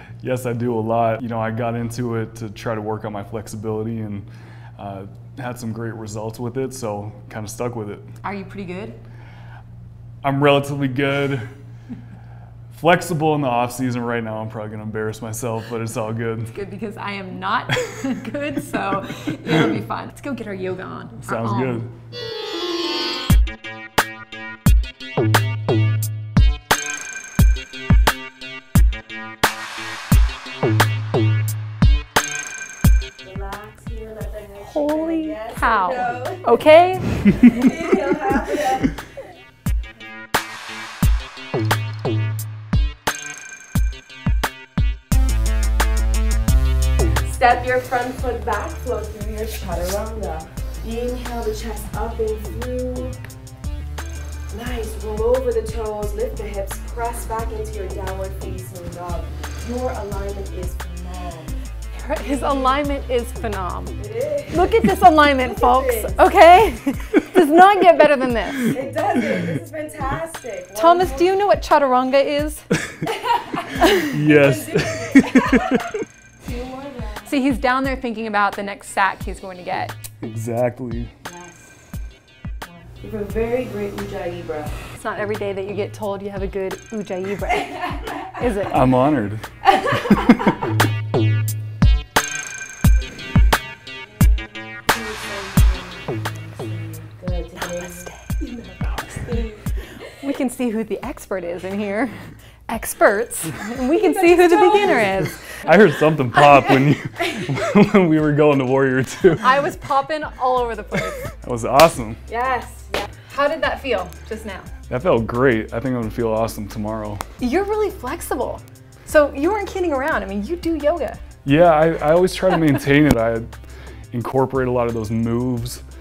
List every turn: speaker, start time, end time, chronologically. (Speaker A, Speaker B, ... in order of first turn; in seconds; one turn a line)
Speaker A: 0.2-8.0
Speaker B: 8.2-9.0
Speaker A: 10.2-11.5
Speaker A: 12.7-16.5
Speaker B: 16.5-21.9
Speaker A: 21.2-21.9
Speaker C: 33.2-39.0
Speaker B: 34.6-37.5
Speaker C: 47.2-53.2
Speaker C: 54.5-61.5
Speaker B: 61.9-64.0
Speaker C: 62.1-62.8
Speaker C: 64.0-66.3
Speaker B: 64.5-68.8
Speaker C: 68.6-71.3
Speaker B: 70.8-72.7
Speaker C: 73.1-75.8
Speaker B: 73.8-74.0
Speaker A: 74.0-75.9
Speaker C: 76.4-77.3
Speaker B: 77.2-79.9
Speaker A: 80.2-81.1
Speaker C: 81.2-81.6
Speaker C: 83.0-84.7
Speaker B: 84.9-88.9
Speaker A: 88.7-90.5
Speaker C: 94.8-99.9
Speaker B: 97.6-98.3
Speaker B: 100.1-105.6
Speaker C: 103.9-105.1
Speaker A: 105.5-109.5
Speaker B: 109.4-111.3
Speaker A: 111.3-112.2
Speaker C: 112.3-113.1
Speaker B: 113.3-114.7
Speaker A: 114.9-117.2
Speaker B: 117.4-121.2
Speaker A: 121.4-123.5
Speaker A: 124.1-125.8